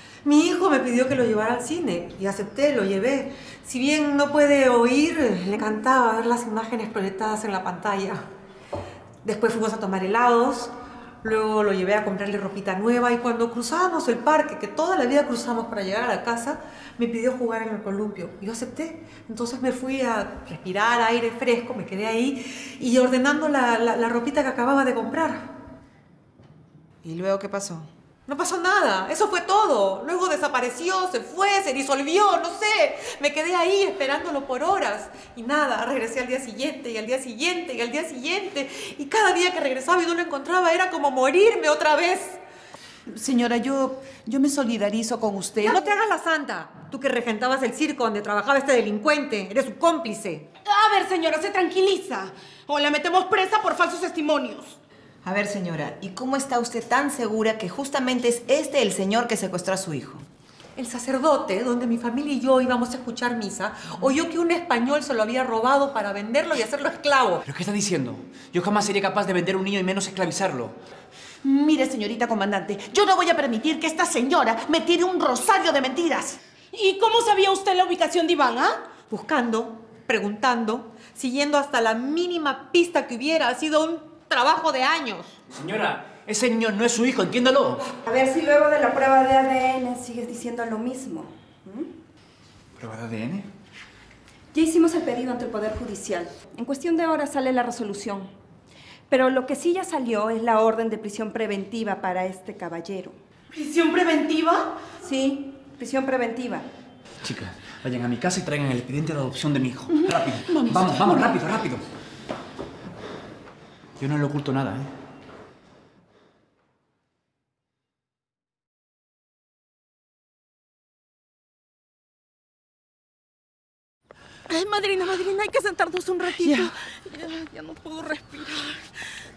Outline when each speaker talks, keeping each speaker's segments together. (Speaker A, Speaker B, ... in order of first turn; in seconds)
Speaker A: 0.2-8.2, 9.2-10.7, 11.2-25.5, 28.3-42.4, 45.6-50.4, 60.7-67.4, 79.1-85.3
Speaker B: 27.0-27.9, 55.2-60.2
Speaker C: 43.1-45.8, 71.4-76.4, 126.4-126.7
Speaker D: 50.6-54.8, 76.7-78.8, 103.5-104.8, 110.5-111.3, 124.5-128.8
Speaker E: 67.4-70.7, 85.5-87.8, 92.8-93.5, 107.2-111.8, 114.0-114.9
Speaker F: 88.0-91.9, 94.5-98.3, 99.1-103.2, 105.0-106.7